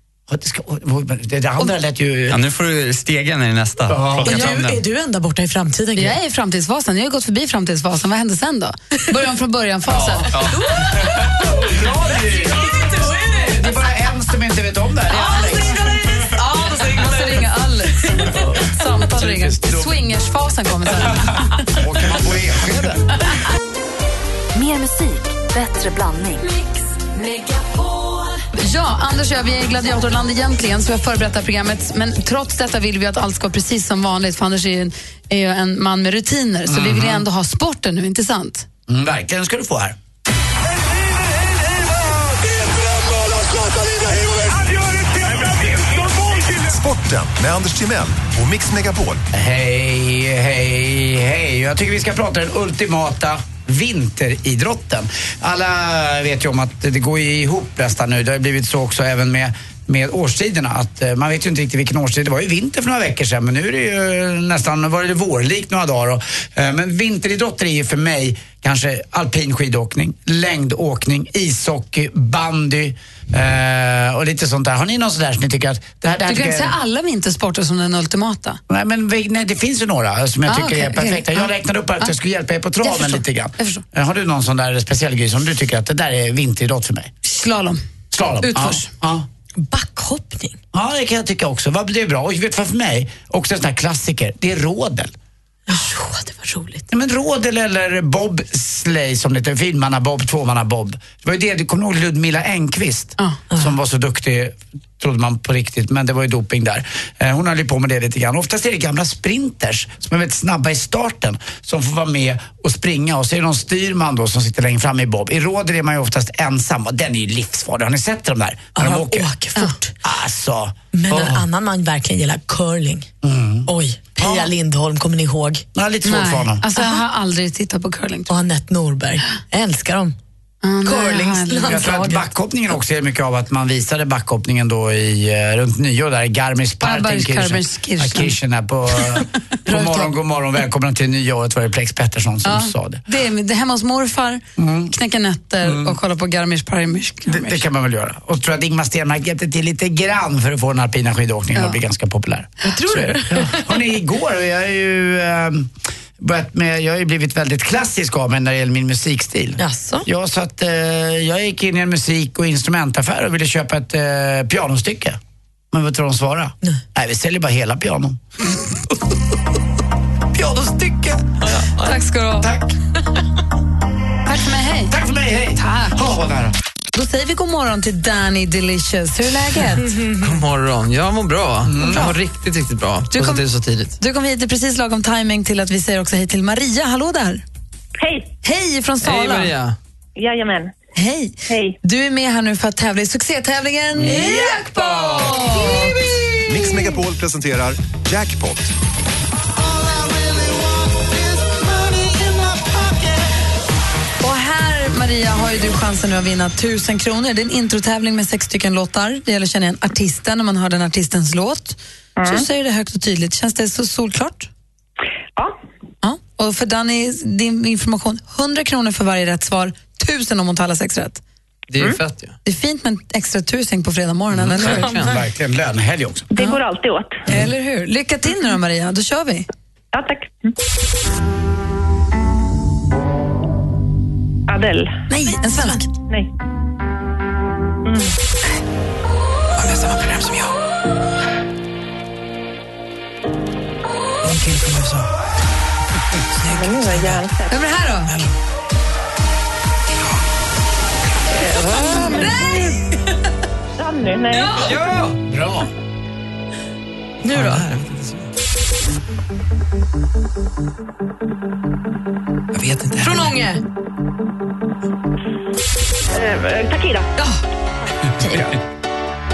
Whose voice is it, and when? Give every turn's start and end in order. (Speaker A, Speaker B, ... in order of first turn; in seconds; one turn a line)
Speaker A: 0.3-2.4
Speaker B: 2.3-4.8
Speaker A: 3.9-4.4
Speaker C: 4.2-6.2
Speaker D: 6.0-10.3
Speaker C: 10.5-11.4
Speaker A: 11.4-12.8
Speaker C: 12.7-13.6
Speaker A: 13.3-16.0
Speaker D: 16.3-21.7
Speaker A: 21.8-23.0
Speaker E: 24.6-26.5
Speaker D: 28.6-38.7
Speaker A: 36.7-37.2
Speaker A: 38.9-40.0
Speaker F: 45.2-49.2
Speaker A: 49.3-76.8
Speaker D: 76.3-78.6
Speaker A: 78.7-87.1
Speaker D: 80.5-82.1
Speaker D: 82.8-83.8
Speaker D: 87.2-87.8
Speaker A: 88.1-89.3
Speaker D: 88.4-88.9
Speaker C: 89.6-90.6
Speaker A: 90.7-95.1
Speaker C: 95.7-96.8
Speaker A: 96.9-119.3
Speaker C: 118.8-120.0
Speaker A: 120.0-121.4
Speaker C: 120.9-123.1
Speaker A: 123.2-124.5
Speaker C: 123.7-125.7
Speaker A: 125.8-126.7
Speaker D: 126.0-128.4
Speaker C: 128.3-130.2
Speaker D: 130.6-132.0
Speaker C: 130.8-132.2
Speaker A: 131.7-143.0
Speaker D: 136.8-138.3
Speaker D: 139.7-140.1
Speaker D: 142.4-147.7
Speaker A: 144.6-144.9
Speaker A: 145.6-146.0
Speaker A: 147.3-165.2
Speaker C: 152.6-153.7
Speaker C: 159.6-160.1
Speaker A: 165.7-168.2
Speaker A: 170.3-171.4
Speaker D: 171.8-172.5
Speaker A: 172.4-172.7
Speaker D: 174.3-174.9
Speaker A: 174.9-176.6
Speaker D: 175.6-176.0
Speaker D: 176.9-179.9
Speaker C: 179.9-180.2
Speaker G: 180.2-183.9
Speaker A: 181.7-182.1
Speaker D: 181.8-182.1
Speaker D: 183.1-183.4
Speaker D: 184.0-187.4
Speaker H: 188.0-188.3
Speaker D: 188.4-189.5
Speaker G: 189.0-189.8
Speaker H: 190.2-190.7
Speaker D: 191.0-196.0
Speaker H: 191.5-191.8
Speaker F: 196.4-198.7
Speaker D: 204.2-214.5
Speaker H: 212.2-212.5
Speaker D: 216.0-221.2
Speaker G: 221.7-222.4
Speaker D: 222.4-224.9
Speaker G: 224.5-225.2
Speaker A: 224.6-226.3
Speaker H: 226.3-227.3
Speaker D: 227.3-229.5
Speaker H: 229.9-230.5
Speaker H: 234.5-235.0
Speaker D: 235.1-235.9
Speaker C: 235.5-235.8
Speaker H: 237.8-238.1
Speaker G: 239.6-240.6
Speaker G: 244.2-245.1
Speaker G: 246.4-247.3
Speaker H: 246.4-247.6
Speaker D: 247.5-248.2
Speaker G: 248.1-248.3
Speaker H: 251.3-252.8
Speaker D: 252.1-252.9
Speaker H: 253.8-254.8
Speaker G: 254.6-255.2
Speaker A: 255.3-255.7
Speaker C: 257.2-257.6
Speaker G: 257.3-258.3
Speaker G: 262.5-263.4
Speaker C: 263.0-263.6
Speaker H: 266.1-267.1